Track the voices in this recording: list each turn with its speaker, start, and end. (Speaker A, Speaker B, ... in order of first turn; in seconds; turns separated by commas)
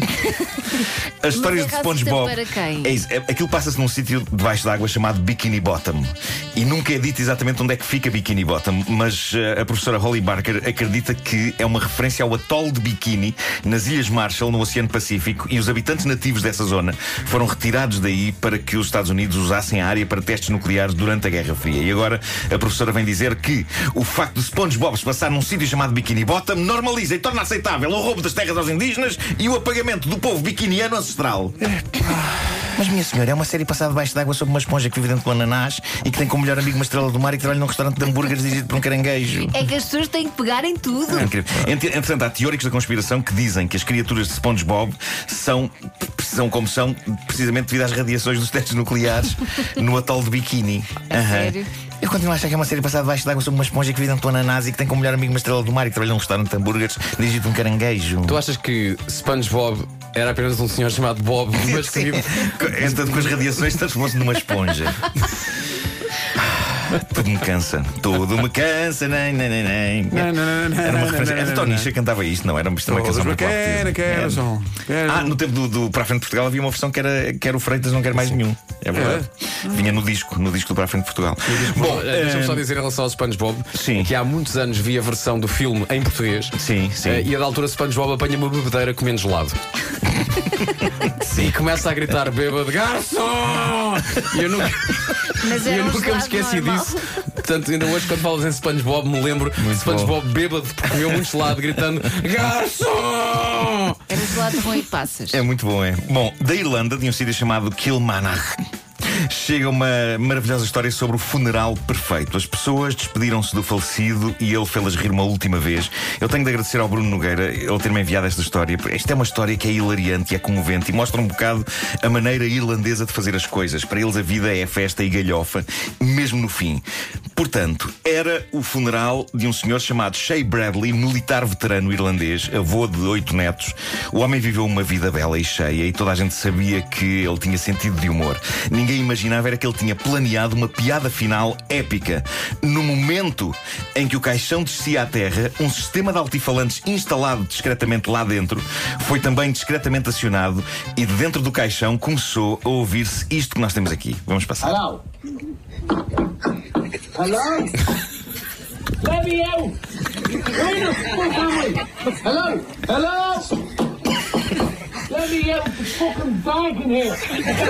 Speaker A: 0.2-0.5, Speaker A: 1.2-31.6, Speaker B: 1.3-3.0, Speaker C: 31.6-32.5, Speaker A: 32.8-39.5, Speaker B: 39.5-41.3, Speaker A: 41.1-58.4, Speaker B: 51.1-51.7, Speaker D: 58.3-63.3, Speaker A: 61.7-65.1, Speaker A: 66.3-74.5, Speaker C: 70.1-71.9, Speaker C: 72.9-75.3, Speaker A: 75.0-82.7, Speaker C: 78.9-80.0, Speaker D: 81.5-89.6, Speaker A: 83.7-84.1, Speaker A: 86.6-87.3, Speaker D: 91.1-104.0, Speaker B: 95.4-97.2, Speaker A: 99.6-100.2, Speaker B: 104.1-105.4, Speaker A: 105.3-108.6, Speaker A: 109.2-154.8, Speaker E: 154.6-155.0, Speaker E: 157.1-157.8, Speaker E: 159.0-159.8, Speaker E: 160.3-163.6, Speaker E: 165.1-167.4